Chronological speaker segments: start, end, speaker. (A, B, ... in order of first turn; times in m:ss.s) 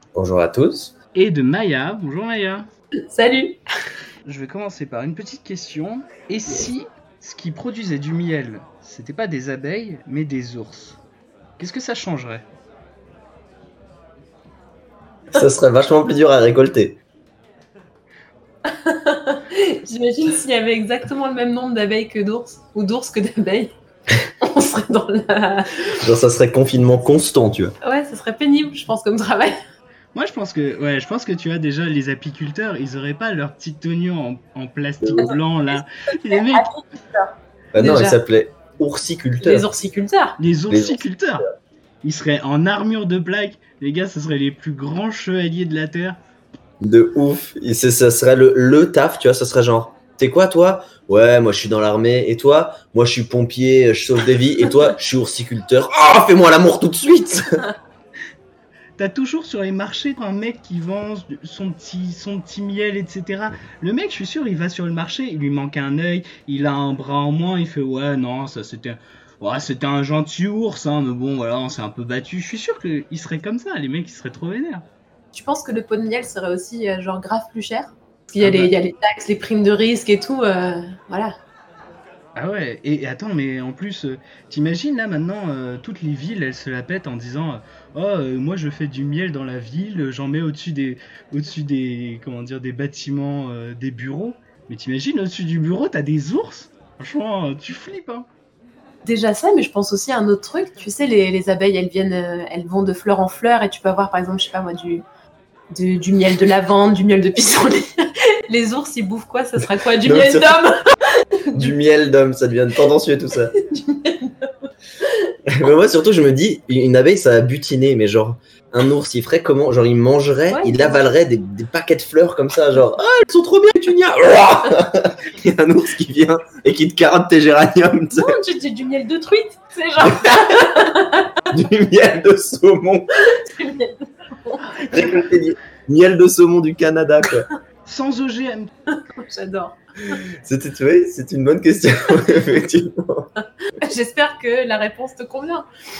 0:00.1-0:00.9 A
0:01.1-0:02.7 B
0:03.1-0:03.6 C
0:04.2-0:11.0 B
0:11.6-0:12.4 B
0:15.3-0:17.0 A
0:18.6-0:23.8 C
0:24.4-0:26.0 C
0:26.0-0:27.7 A
0:27.8-0:29.6 C
0:30.1-0:36.7 B
0:35.0-0:35.3 A
0:36.3-0:38.2 C
0:37.7-0:39.7 A
0:39.4-0:40.4 C
0:40.4-0:41.5 B
0:40.7-0:41.5 A
0:42.0-0:46.2 B
0:46.8-0:57.6 A
0:59.0-1:14.8 B
1:15.3-1:21.3 C
1:18.4-1:18.7 B
1:22.3-1:38.3 B
1:39.0-1:45.0 C
1:45.7-1:51.8 C
1:49.9-1:50.8 A
1:51.5-1:53.5 A
1:53.6-1:54.5 C
1:55.5-2:08.4 A
2:00.5-2:01.0 C
2:08.2-2:11.4 C
2:10.0-2:10.9 A
2:11.5-2:13.2 A
2:13.2-2:14.7 C
2:14.9-2:17.5 A
2:17.8-2:18.7 B
2:18.9-2:20.2 C
2:20.3-2:23.3 A
2:23.8-2:25.7 C